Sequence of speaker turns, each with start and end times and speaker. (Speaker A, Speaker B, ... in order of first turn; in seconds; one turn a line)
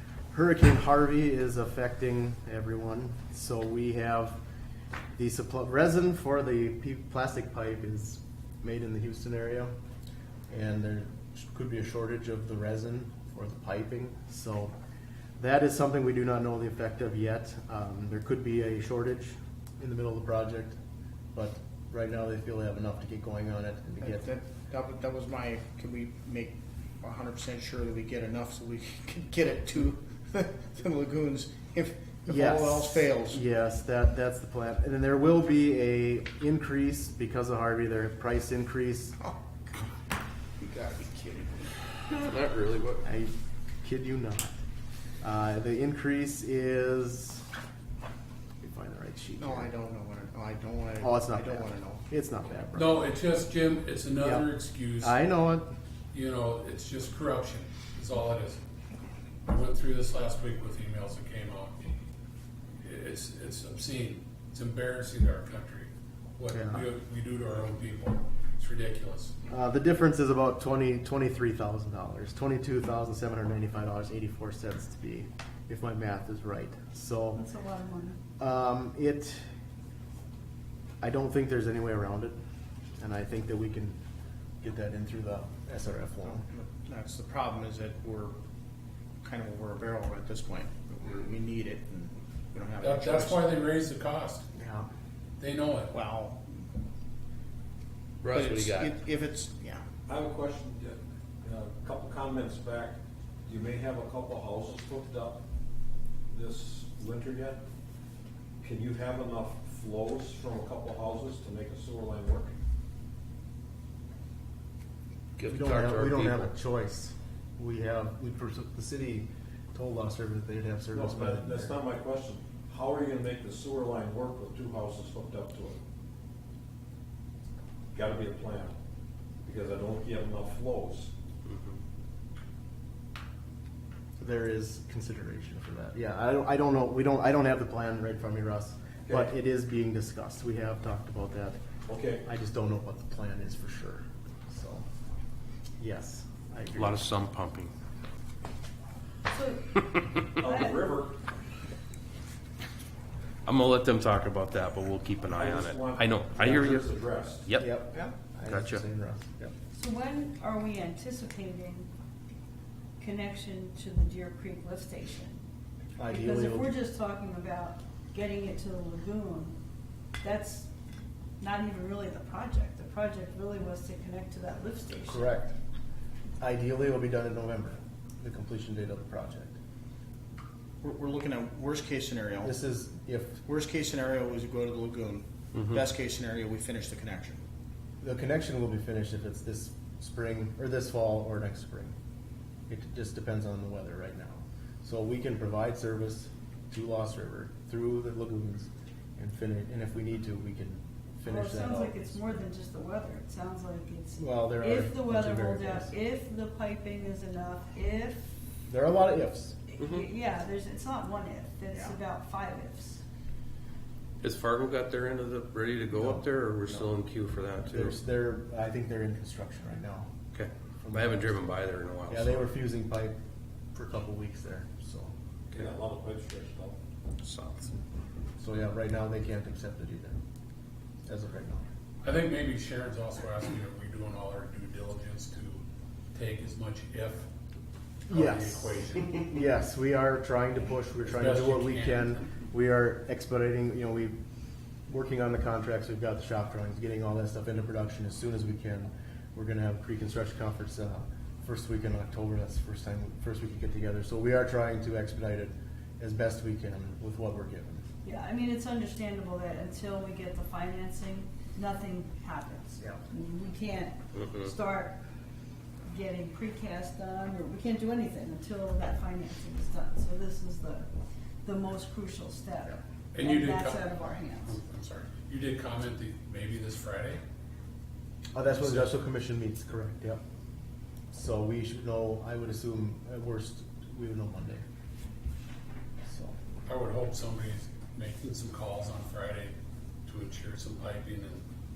Speaker A: 0.3-4.4
Speaker A: 5.2-9.7
Speaker A: 10.5-14.7
Speaker A: 15.4-20.8
Speaker A: 21.3-24.2
Speaker B: 24.0-33.4
Speaker A: 32.3-39.2
Speaker B: 40.6-41.8
Speaker C: 42.1-43.0
Speaker A: 43.0-44.6
Speaker A: 45.2-47.5
Speaker A: 48.6-49.7
Speaker B: 49.4-52.0
Speaker A: 51.0-53.0
Speaker D: 52.7-55.2
Speaker A: 54.2-54.5
Speaker A: 55.0-55.8
Speaker D: 56.1-58.6
Speaker D: 59.5-61.8
Speaker D: 62.8-69.3
Speaker A: 66.5-66.8
Speaker A: 69.5-77.4
Speaker E: 77.3-78.2
Speaker A: 78.4-79.4
Speaker A: 81.0-82.4
Speaker A: 83.0-84.0
Speaker A: 84.6-86.4
Speaker B: 86.4-88.3
Speaker B: 89.2-93.4
Speaker D: 92.8-94.4
Speaker A: 94.5-94.9
Speaker D: 95.4-95.9
Speaker B: 95.9-96.4
Speaker C: 98.2-98.9
Speaker B: 98.2-99.8
Speaker F: 100.1-105.4
Speaker F: 106.3-107.6
Speaker F: 108.6-112.5
Speaker C: 115.4-116.5
Speaker A: 115.5-121.7
Speaker F: 120.9-125.8
Speaker F: 127.9-128.7
Speaker F: 129.4-131.1
Speaker A: 134.2-141.6
Speaker F: 139.1-139.3
Speaker F: 141.9-142.2
Speaker A: 142.2-144.8
Speaker A: 145.8-147.0
Speaker C: 146.8-147.7
Speaker E: 149.3-149.7
Speaker F: 150.4-151.2
Speaker E: 150.5-150.9
Speaker C: 153.4-156.9
Speaker F: 155.3-157.4
Speaker A: 157.6-159.5
Speaker C: 158.5-158.8
Speaker E: 159.7-161.9
Speaker E: 163.0-165.4
Speaker A: 166.0-166.7
Speaker E: 166.1-169.5
Speaker E: 170.2-170.7
Speaker E: 171.4-175.3
Speaker A: 175.1-175.5
Speaker A: 176.4-179.6
Speaker B: 180.8-182.6
Speaker A: 182.4-183.4
Speaker B: 183.4-187.4
Speaker A: 188.0-191.9
Speaker A: 192.7-202.0
Speaker E: 201.3-208.2
Speaker A: 204.2-205.9
Speaker A: 208.7-209.6
Speaker E: 209.7-213.0
Speaker C: 209.8-210.1
Speaker C: 214.2-218.0
Speaker A: 215.9-216.9
Speaker A: 217.7-220.1
Speaker C: 220.3-222.5
Speaker A: 220.8-221.3
Speaker A: 222.1-223.1
Speaker A: 223.7-225.1
Speaker F: 225.6-226.8
Speaker C: 227.2-227.7
Speaker A: 228.4-230.2
Speaker A: 231.1-231.6
Speaker D: 232.0-235.6
Speaker D: 236.1-237.3
Speaker D: 238.1-239.3
Speaker A: 238.1-244.2
Speaker D: 241.1-242.3
Speaker A: 244.9-257.8
Speaker E: 258.0-264.9
Speaker E: 265.9-270.9
Speaker E: 271.4-274.6
Speaker D: 273.1-277.2
Speaker A: 278.3-280.2
Speaker D: 278.5-278.9
Speaker A: 281.1-284.6
Speaker A: 286.1-286.4
Speaker D: 286.6-289.5
Speaker D: 290.1-291.4